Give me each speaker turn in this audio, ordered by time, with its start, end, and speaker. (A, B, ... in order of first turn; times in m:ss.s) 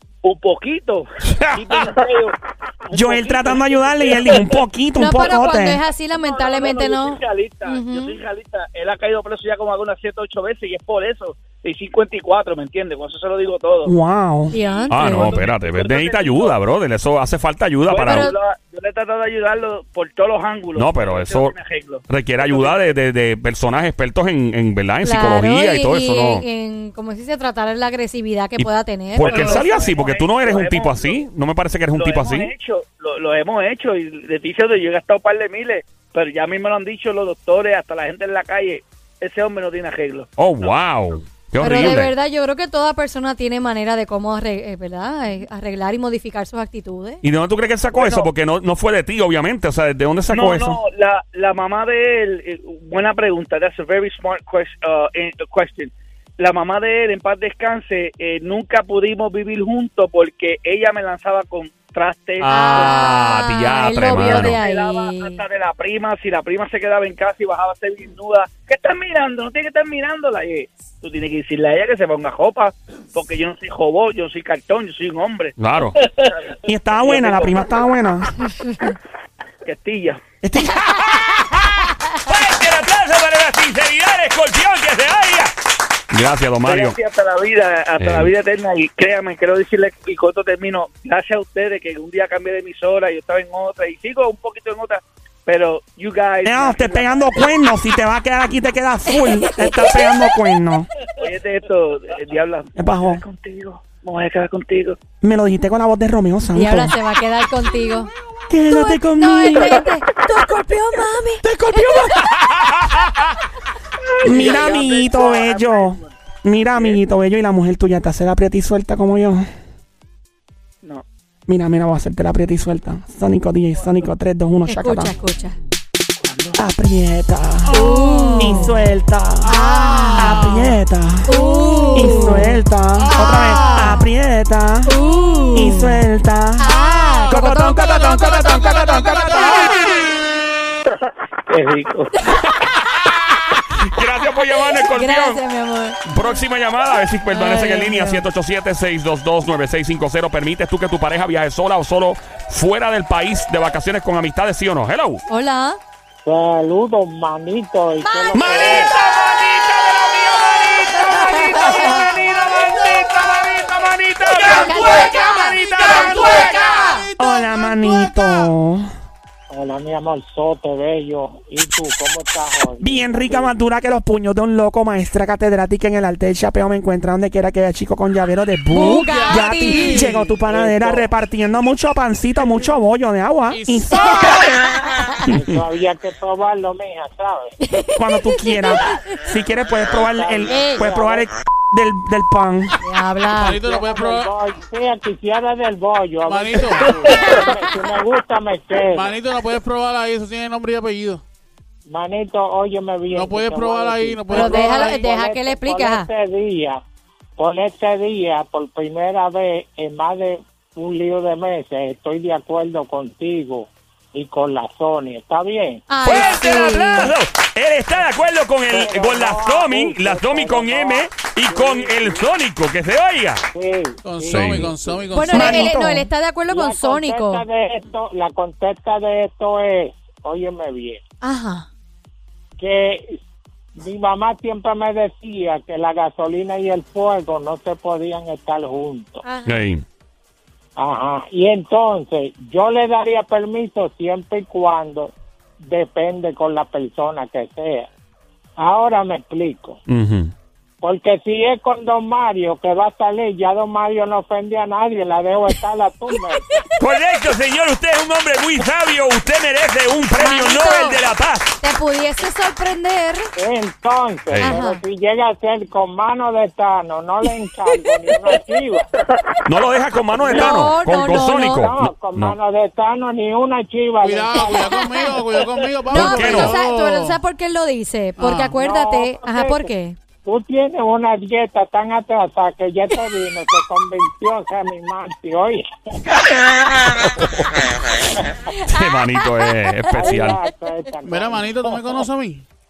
0:00.2-0:04.6 A
0:01.3-0:01.9 B
0:02.9-0:05.8 C
0:05.0-0:08.2 D
0:06.1-0:13.9 A
0:13.8-0:14.5 C
0:14.5-0:15.4 D
0:14.5-0:16.6 A
0:14.9-0:18.3 B
0:17.9-0:22.9 A
0:18.0-0:18.4 D
0:20.7-0:21.5 B
0:22.1-0:26.4 B
0:25.0-0:29.6 D
0:28.6-0:32.5 B
0:29.2-0:31.2 A
0:29.3-0:29.6 E
0:31.9-0:40.7 A
0:40.4-0:42.1 B
0:41.6-0:47.2 D
0:47.2-0:50.8 B
0:47.9-0:48.3 A
0:50.3-1:03.2 A
1:02.4-1:04.6 B
1:02.4-1:05.4 D
1:04.1-1:17.7 A
1:15.6-1:15.9 B
1:16.6-1:18.3 C
1:19.6-1:20.2 A
1:20.4-1:20.8 C
1:20.8-1:21.6 B
1:22.2-1:25.5 B
1:26.1-1:27.0 B
1:26.6-1:37.5 A
1:28.0-1:28.3 B
1:36.4-1:40.9 C
1:39.1-1:40.0 D
1:41.2-1:45.0 A
1:42.8-1:43.2 C
1:45.2-1:46.9 C
1:46.5-1:48.1 D
1:47.6-1:48.1 E
1:48.5-1:49.8 C
1:48.7-1:52.0 D
1:51.7-1:53.0 B
1:51.8-1:52.1 C
1:54.2-1:56.2 A
1:54.2-1:59.4 C
2:01.5-2:05.2 C
2:04.7-2:05.6 D
2:06.6-2:09.5 C
2:07.6-2:08.8 E
2:07.7-2:08.7 D
2:09.4-2:10.8 E
2:09.4-2:10.4 D
2:10.1-2:11.3 C
2:11.2-2:12.6 D
2:11.3-2:12.4 E
2:11.9-2:14.9 C
2:13.0-2:13.9 E
2:13.1-2:14.0 D
2:14.8-2:16.0 D
2:15.5-2:16.7 C
2:16.6-2:18.8 D
2:16.7-2:20.1 E
2:17.2-2:19.8 C
2:21.5-2:22.1 A
2:22.4-2:25.4 B
2:24.9-2:26.2 D
2:26.0-2:35.2 B
2:27.3-2:28.2 D
2:35.3-2:35.8 D
2:36.2-2:38.9 F
2:38.0-2:38.9 D
2:38.3-2:46.8 B
2:41.0-2:42.0 D
2:41.9-2:43.1 E
2:44.3-2:48.5 E
2:44.5-2:47.1 D
2:47.2-2:48.8 C
2:49.5-2:53.5 F
2:52.8-3:04.4 C
2:58.7-3:00.1 D
2:58.7-3:00.4 E
3:00.5-3:01.1 F
3:03.5-3:04.6 E
3:04.0-3:04.3 D
3:04.8-3:05.1 D
3:05.2-3:07.5 F
3:07.6-3:08.9 D
3:08.0-3:12.8 C
3:10.0-3:11.3 F
3:10.5-3:10.8 D
3:12.8-3:13.6 D
3:13.3-3:14.4 E
3:13.5-3:19.1 F
3:16.2-3:17.2 E
3:16.9-3:17.4 A
3:17.3-3:17.6 D
3:18.8-3:21.2 E
3:21.9-3:26.8 F
3:23.1-3:25.0 E
3:24.3-3:26.1 D
3:27.4-3:36.4 F
3:35.9-3:37.1 D
3:36.0-3:43.4 B
3:38.7-3:42.3 F
3:43.5-3:45.6 F
3:44.0-3:45.7 E
3:44.3-3:44.7 B
3:45.1-3:47.4 D
3:45.3-3:46.1 C
3:46.5-3:51.0 F
3:51.2-3:51.7 D
3:52.6-3:53.2 F
3:53.8-3:59.2 F
3:59.2-3:59.6 D
3:59.5-3:59.8 B
4:00.8-4:07.9 F
4:08.6-4:09.8 F
4:09.9-4:10.3 B
4:10.8-4:16.5 F
4:16.8-4:21.5 B
4:20.2-4:21.0 D
4:21.6-4:23.3 D
4:23.4-4:28.9 F
4:24.3-4:24.6 B
4:24.4-4:24.8 D
4:29.5-4:32.4 B
4:30.2-4:30.7 F
4:30.3-4:31.7 D
4:31.3-4:34.8 F
4:34.0-4:37.2 E
4:35.9-4:40.0 D
4:35.9-4:36.5 B
4:38.2-4:38.5 E
4:38.5-4:39.7 F
4:40.2-4:45.6 F
4:48.5-4:49.5 D
4:48.7-4:50.4 B
4:49.9-4:52.0 F
4:50.0-4:50.4 D
4:51.0-4:52.4 E